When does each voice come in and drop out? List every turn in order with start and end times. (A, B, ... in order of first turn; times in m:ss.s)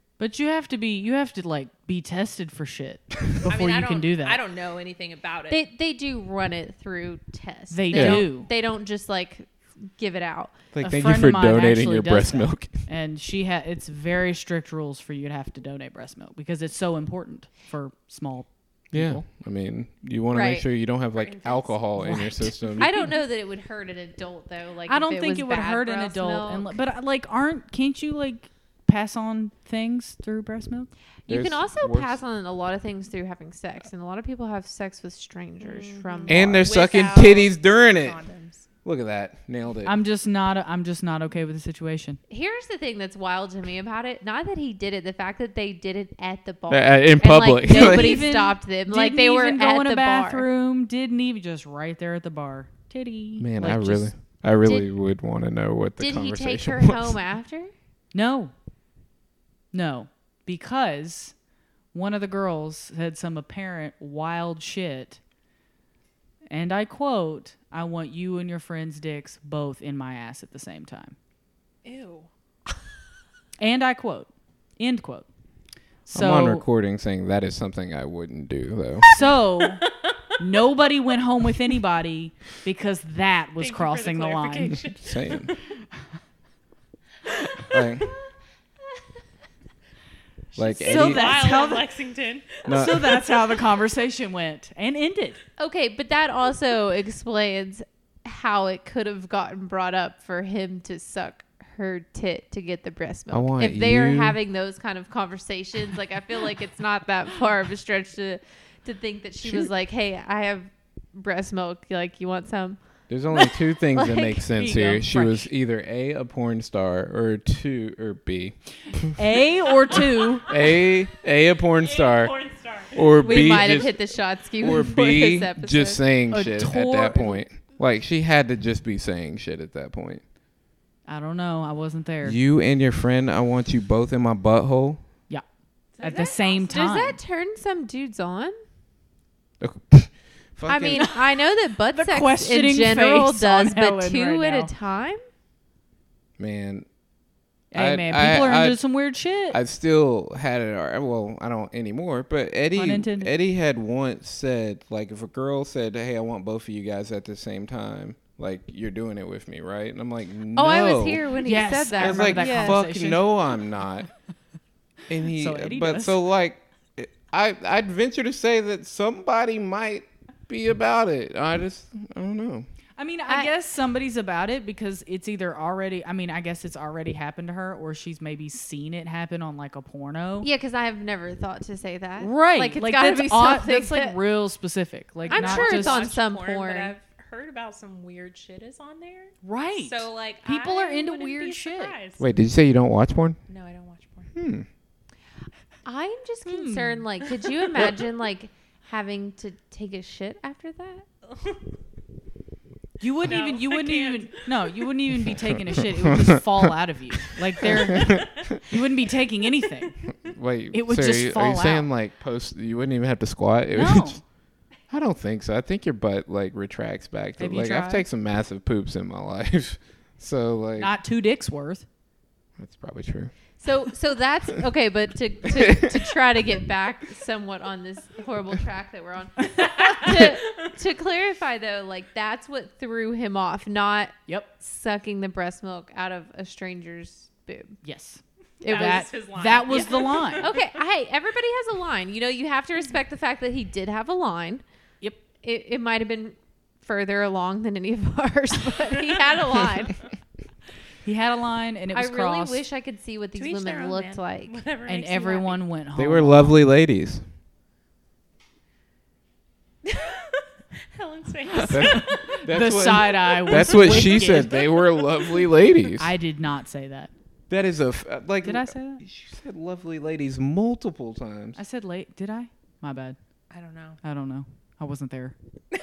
0:00.2-0:04.4 A
0:03.5-0:05.6 B
0:05.5-0:10.6 C
0:07.7-0:08.5 A
0:07.9-0:08.3 D
0:10.7-0:12.9 D
0:10.8-0:19.2 A
0:18.9-0:22.9 D
0:20.3-0:20.7 C
0:21.2-0:21.8 B
0:22.0-0:23.0 A
0:22.8-0:26.8 C
0:24.9-0:30.9 A
0:31.2-0:37.0 C
0:31.3-0:32.2 D
0:35.6-0:38.6 B
0:36.3-0:38.2 D
0:38.8-0:40.0 D
0:39.8-0:42.2 A
0:42.3-0:50.5 C
0:46.7-0:48.3 D
0:47.7-0:54.1 A
0:53.4-0:57.2 D
0:54.6-0:54.9 C
0:56.0-0:57.7 C
0:58.1-0:58.5 A
0:59.7-1:01.3 A
1:01.9-1:05.2 A
1:06.5-1:11.2 A
1:11.8-1:12.3 B
1:13.6-1:15.2 A
1:16.0-1:16.6 A
1:16.1-1:19.1 D
1:19.1-1:19.8 A
1:19.1-1:19.9 B
1:20.4-1:24.8 A
1:23.6-1:25.6 B
1:25.0-1:25.5 D
1:27.5-1:28.1 B
1:27.7-1:28.1 D
1:30.5-1:31.5 D
1:30.6-1:31.8 A
1:30.9-1:33.4 B
1:32.6-1:33.2 D
1:32.6-1:35.4 A
1:35.6-1:52.8 C
1:43.3-1:44.4 D
1:53.1-1:59.1 D
1:53.3-1:54.4 C
1:54.5-1:55.5 A
1:59.2-2:00.4 A
2:00.4-2:00.9 B
2:00.5-2:02.3 D
2:01.8-2:03.5 B
2:02.9-2:10.2 D
2:03.2-2:06.0 C
2:06.3-2:07.4 A
2:11.1-2:12.4 A
2:12.2-2:15.0 D
2:16.0-2:16.7 B
2:16.0-2:17.2 A
2:16.1-2:18.6 C
2:19.6-2:21.1 D
2:20.7-2:25.2 C
2:21.9-2:24.7 A
2:26.4-2:26.9 D
2:27.7-2:29.6 A
2:27.7-2:28.8 D
2:29.5-2:41.4 D
2:32.7-2:33.3 A
2:40.5-2:42.8 C
2:41.4-2:43.3 A
2:41.9-2:44.1 D
2:45.1-2:52.7 D
2:45.3-2:46.2 A
2:53.0-3:00.5 A
3:00.4-3:04.2 C
3:02.2-3:06.1 A
3:05.3-3:06.9 C
3:05.3-3:12.2 B
3:09.4-3:11.9 A
3:12.2-3:13.4 D
3:13.5-3:14.3 B
3:14.3-3:14.7 D
3:15.8-3:21.0 C
3:16.5-3:17.0 A
3:21.3-3:21.6 B
3:23.0-3:30.0 A
3:23.2-3:24.9 B
3:26.1-3:26.7 D
3:27.6-3:28.4 D
3:30.2-3:34.2 D
3:30.7-3:31.9 A
3:33.7-3:34.2 A
3:34.9-3:41.0 D
3:37.4-3:38.1 A
3:40.8-3:41.8 A
3:42.6-3:43.3 D
3:43.6-3:57.8 C
3:45.5-3:46.2 D
3:49.9-3:50.3 B
3:54.3-3:54.5 A
3:57.8-4:00.5 A
3:58.6-4:00.7 B
3:58.6-4:04.6 C
4:05.4-4:10.1 C
4:11.0-4:12.6 A
4:11.9-4:14.6 C
4:13.3-4:15.6 B
4:14.9-4:16.6 A
4:16.0-4:17.2 D
4:19.8-4:22.4 B
4:21.6-4:26.1 D
4:21.9-4:24.5 A
4:23.4-4:25.5 B
4:26.0-4:27.1 A
4:27.5-4:31.6 D
4:28.4-4:29.0 A
4:31.6-4:33.2 A
4:33.5-4:34.0 B
4:34.0-4:35.3 A